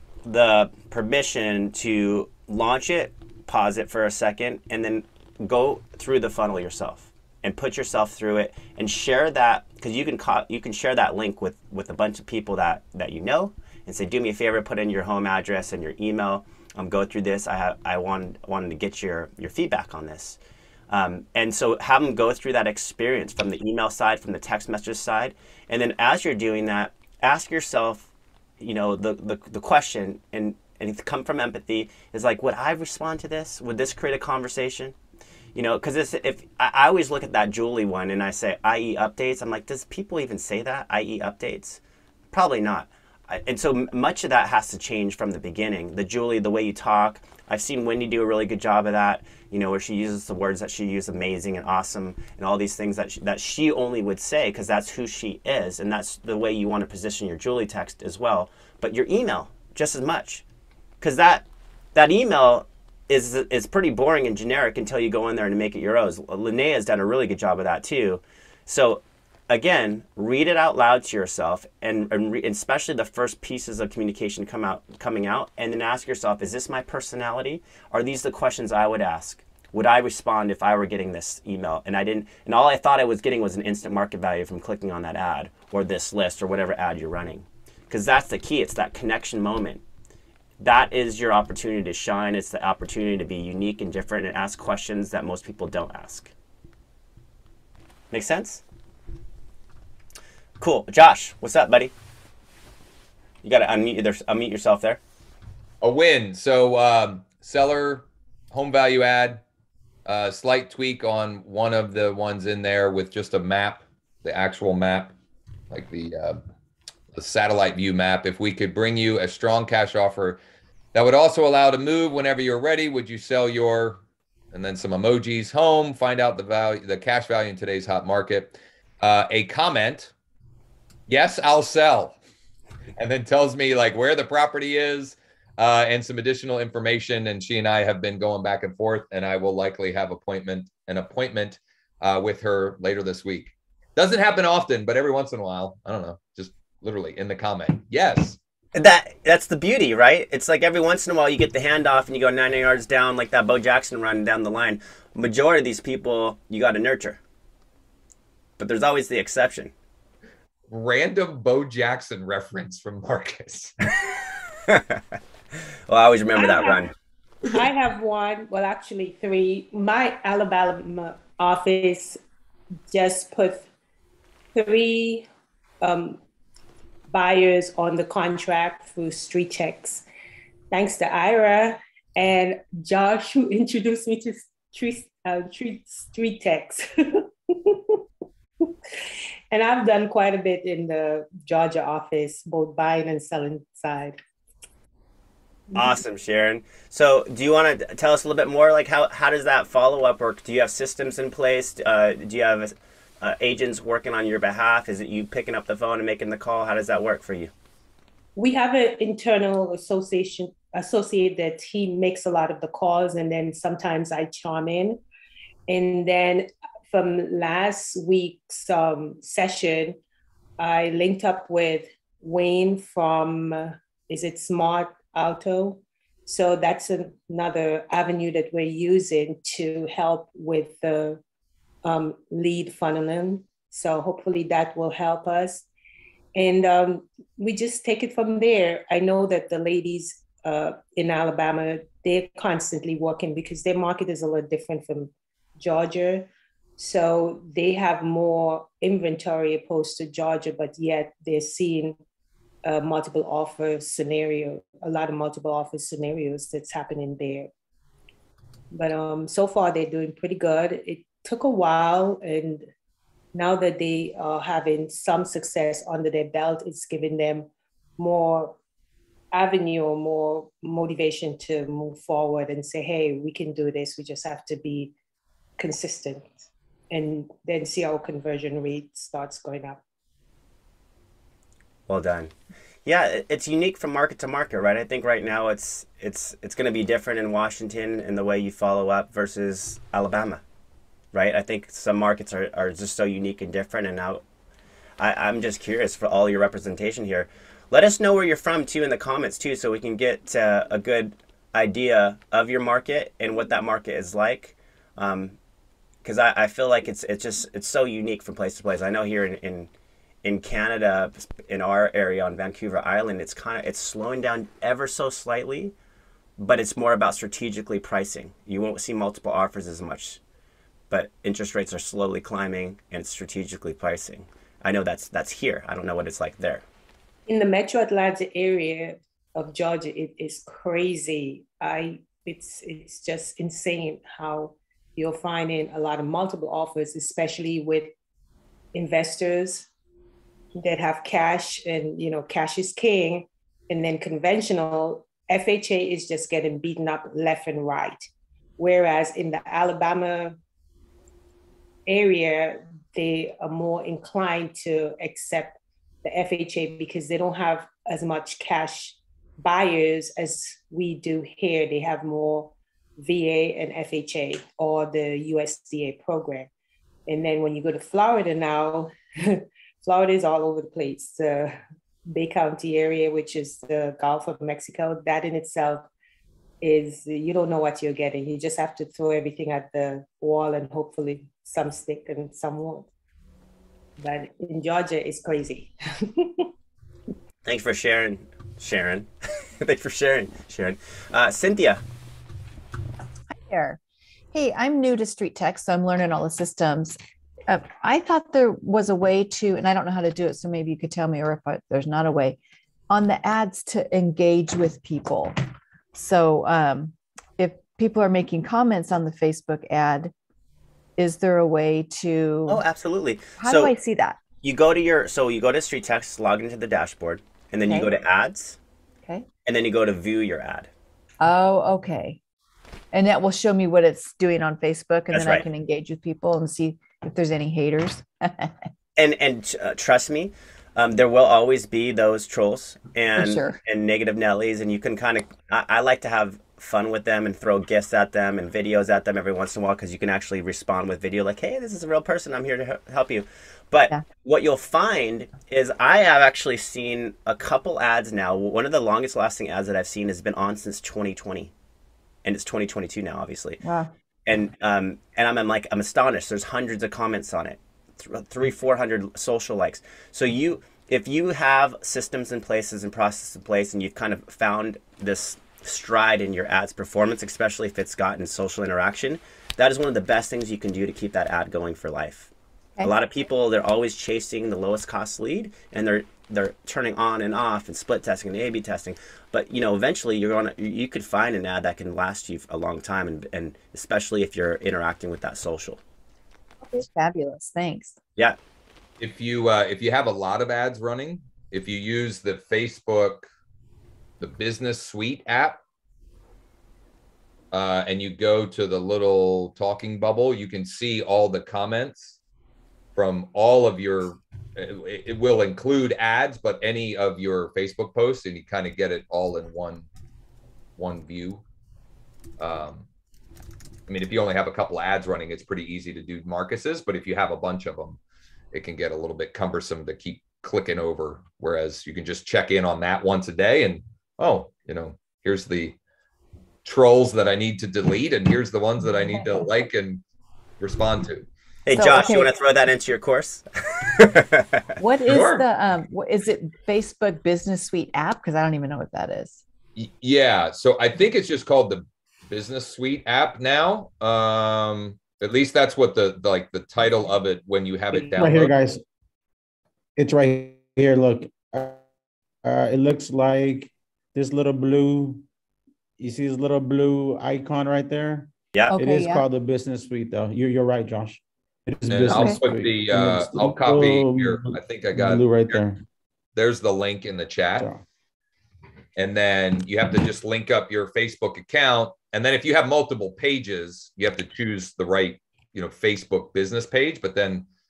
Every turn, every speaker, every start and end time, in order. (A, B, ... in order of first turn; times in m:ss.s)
0:00.2-0:20.4 A
0:20.9-0:34.9 A
0:35.6-0:41.8 A
0:42.3-1:00.4 A
1:01.0-1:29.8 A
1:30.6-1:36.3 A
1:38.1-1:38.6 A
1:40.6-1:41.9 A
1:43.4-1:45.0 A
1:45.8-1:49.4 B
1:50.1-1:55.1 B
1:55.7-1:56.4 B
1:57.1-2:00.4 B
2:00.9-2:10.1 B
2:11.1-2:12.2 B
2:13.0-2:28.4 B
2:28.8-2:37.2 A
2:38.6-2:39.7 A
2:40.7-2:43.8 B
2:44.7-2:45.0 A
2:45.9-2:46.9 A
2:46.4-2:46.8 C
2:47.5-2:52.2 C
2:52.9-2:53.7 C
2:54.6-2:55.3 C
2:55.8-2:56.2 C
2:57.1-3:00.0 C
3:00.7-3:08.0 C
3:09.5-3:14.2 C
3:15.8-3:27.5 A
3:28.4-3:35.0 C
3:35.7-3:40.0 C
3:40.6-3:51.2 C
3:51.8-3:55.7 C
3:56.4-4:12.0 C
4:12.7-4:17.5 C
4:18.7-4:22.7 C
4:23.3-4:28.6 C
4:29.3-4:34.9 C
4:35.6-4:36.3 C
4:36.9-4:39.8 C
4:41.9-4:42.3 A
4:42.8-4:50.4 A
4:51.1-4:54.2 A
4:55.0-5:05.4 A
5:06.0-5:09.7 A
5:10.2-5:15.7 A
5:16.4-5:20.2 A
5:20.9-5:26.6 A
5:27.3-5:37.9 C
5:38.7-5:39.7 C
5:40.6-5:50.4 C
5:51.9-6:06.5 C
6:07.1-6:11.5 C
6:12.1-6:15.9 C
6:16.6-6:22.9 C
6:24.0-6:26.5 C
6:27.4-6:29.1 A
6:29.6-6:31.8 A
6:33.3-6:33.8 D
6:34.3-6:37.0 D
6:37.5-6:42.4 D
6:42.9-6:45.4 D
6:45.9-6:50.1 D
6:51.0-6:52.6 D
6:52.5-6:53.7 A
6:53.4-6:54.2 D
6:54.4-6:58.6 A
6:57.7-6:57.9 D
6:59.4-7:00.7 A
7:01.2-7:02.2 D
7:02.9-7:08.6 D
7:05.1-7:05.4 A
7:09.0-7:31.5 A
7:13.2-7:13.6 D
7:32.2-7:33.6 A
7:33.6-7:33.9 D
7:34.3-7:52.3 A
7:52.8-8:05.8 A
8:06.6-8:08.0 D
8:09.0-8:13.3 B
8:14.2-8:15.6 B
8:17.5-8:22.2 B
8:23.0-8:29.9 B
8:30.8-8:31.4 B
8:32.4-8:32.9 B
8:33.9-8:38.0 B
8:38.5-8:45.8 B
8:46.6-8:50.0 B
8:49.0-8:49.5 D
8:50.6-8:51.3 B
8:51.7-8:53.4 A
8:51.7-8:52.3 D
8:54.0-8:55.4 A
8:54.8-8:59.4 D
8:59.8-9:08.6 B
9:07.9-9:08.8 E
9:10.0-9:11.8 E
9:12.4-9:15.2 E
9:16.0-9:25.8 E
9:18.7-9:19.2 D
9:21.8-9:25.6 B
9:22.1-9:22.4 D
9:26.4-9:27.7 B
9:29.0-9:37.5 B